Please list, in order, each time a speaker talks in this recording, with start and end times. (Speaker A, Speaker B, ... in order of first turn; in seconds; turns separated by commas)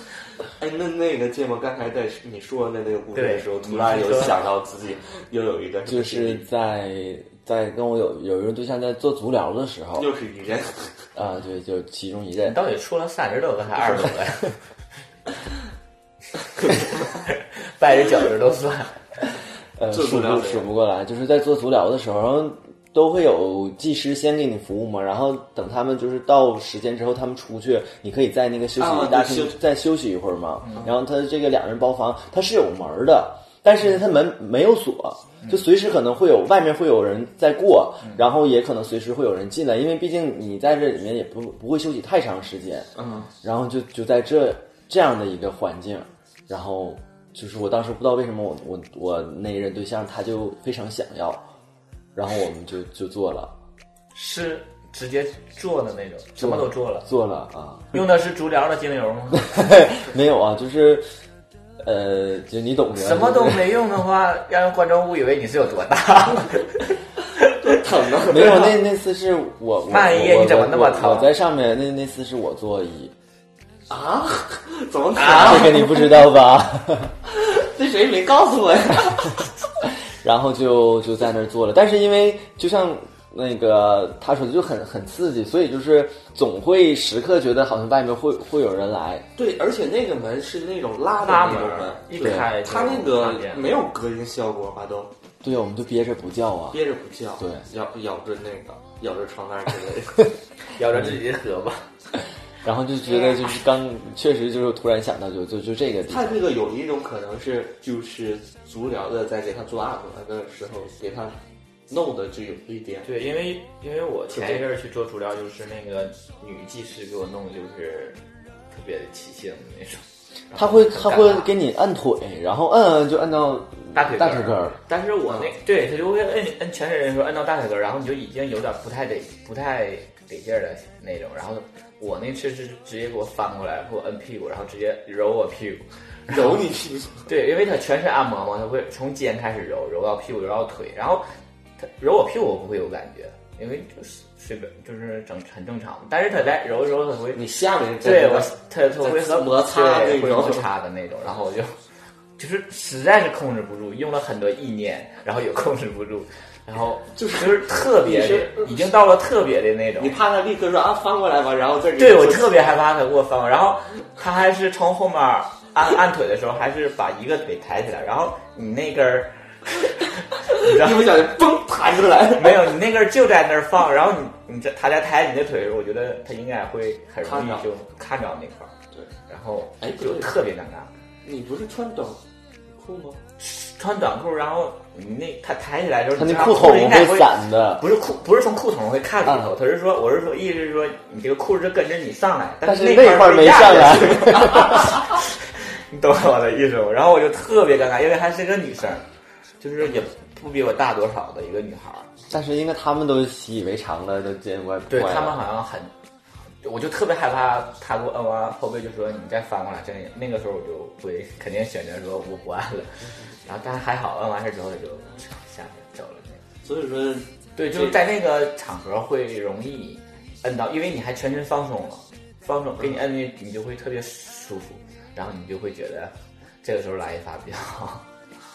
Speaker A: 0.6-6.4, Speaker B: 3.1-4.4, Speaker C: 5.9-10.1, Speaker A: 10.0-11.1, Speaker C: 11.2-12.6, Speaker B: 12.4-14.5, Speaker B: 17.6-19.0, Speaker C: 19.8-42.9, Speaker A: 19.9-20.7, Speaker A: 28.8-29.6, Speaker A: 43.0-43.3, Speaker C: 43.4-51.4, Speaker C: 52.1-53.5, Speaker B: 54.1-57.1, Speaker C: 56.4-58.0, Speaker B: 57.9-59.6, Speaker C: 59.5-61.0, Speaker C: 61.8-63.7, Speaker B: 63.0-66.9, Speaker A: 67.5-68.8, Speaker C: 68.2-73.1, Speaker B: 69.9-71.3, Speaker A: 73.9-76.2, Speaker C: 75.2-77.1, Speaker B: 75.2-75.6, Speaker A: 77.2-79.5, Speaker C: 80.2-89.3, Speaker A: 89.4-95.1, Speaker B: 91.2-93.7, Speaker C: 95.4-96.8, Speaker A: 96.7-100.4, Speaker C: 97.4-97.6, Speaker B: 100.8-101.9, Speaker C: 102.6-106.4, Speaker A: 106.1-111.4, Speaker A: 111.9-113.1, Speaker B: 113.0-118.2, Speaker A: 114.3-114.6, Speaker B: 118.7-121.5, Speaker C: 120.5-124.8, Speaker B: 123.9-136.6, Speaker A: 136.3-137.3, Speaker B: 137.2-141.2, Speaker B: 141.8-147.4, Speaker A: 147.3-150.6, Speaker B: 148.0-151.8, Speaker B: 152.4-160.2, Speaker A: 157.1-158.9, Speaker A: 160.0-162.6, Speaker B: 162.0-171.1, Speaker A: 170.5-172.8, Speaker B: 172.4-178.7, Speaker A: 177.2-177.7, Speaker B: 179.3-180.9, Speaker A: 179.8-180.3, Speaker A: 181.2-182.2, Speaker A: 182.7-183.2, Speaker B: 183.4-199.1, Speaker C: 186.2-187.8, Speaker C: 189.2-189.5, Speaker C: 192.6-195.0, Speaker B: 199.6-202.1, Speaker C: 202.3-205.4, Speaker B: 204.9-205.9, Speaker B: 206.6-216.4, Speaker A: 216.6-218.0, Speaker B: 217.6-228.1